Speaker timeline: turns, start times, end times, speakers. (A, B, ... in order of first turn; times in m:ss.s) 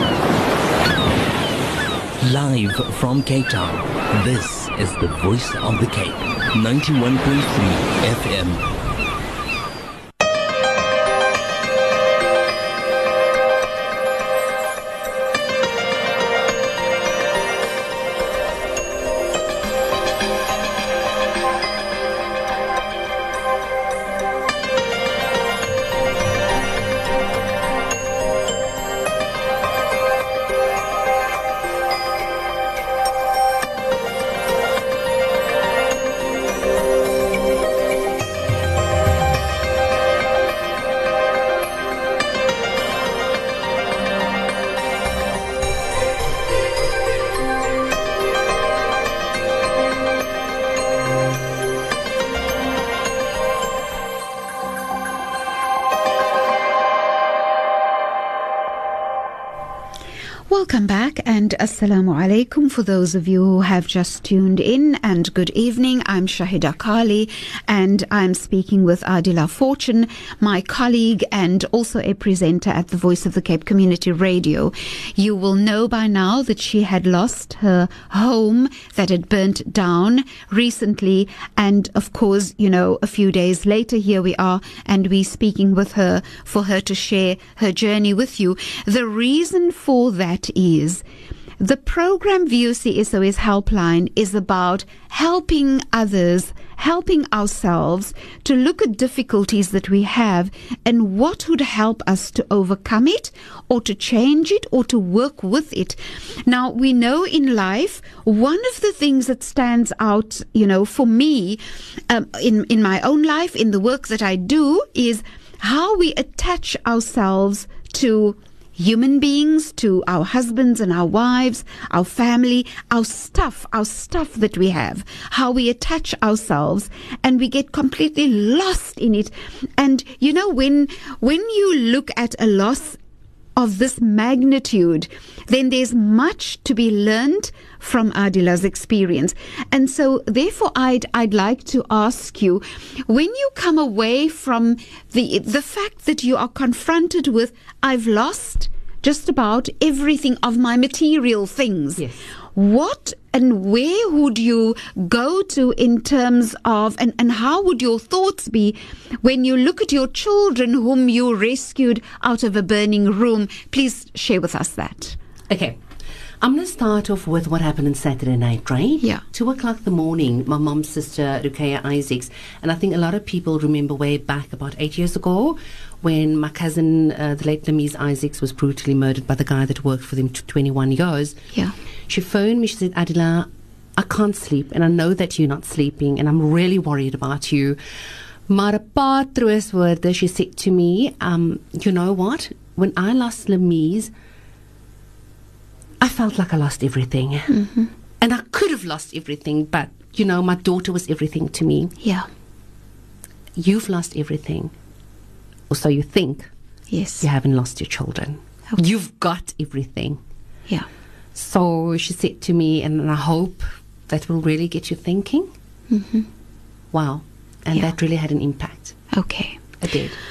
0:02.2-0:08.6 A
1:00.5-1:31.0 B
1:31.6-2:13.0 B
2:13.6-2:45.2 B
2:45.5-2:45.8 C
2:46.4-3:01.4 C
3:02.1-3:07.8 C
3:08.5-3:14.1 C
3:16.0-3:17.5 C
3:17.5-3:17.9 B
3:18.2-3:22.0 C
3:22.0-3:22.3 B
3:23.6-3:24.7 C
3:25.7-3:26.5 C
3:26.9-3:27.3 B
3:27.2-3:30.2 C
3:31.4-3:35.5 C
3:35.9-3:36.3 B
3:36.9-3:39.0 C
3:39.1-3:39.6 B
3:39.8-3:40.2 C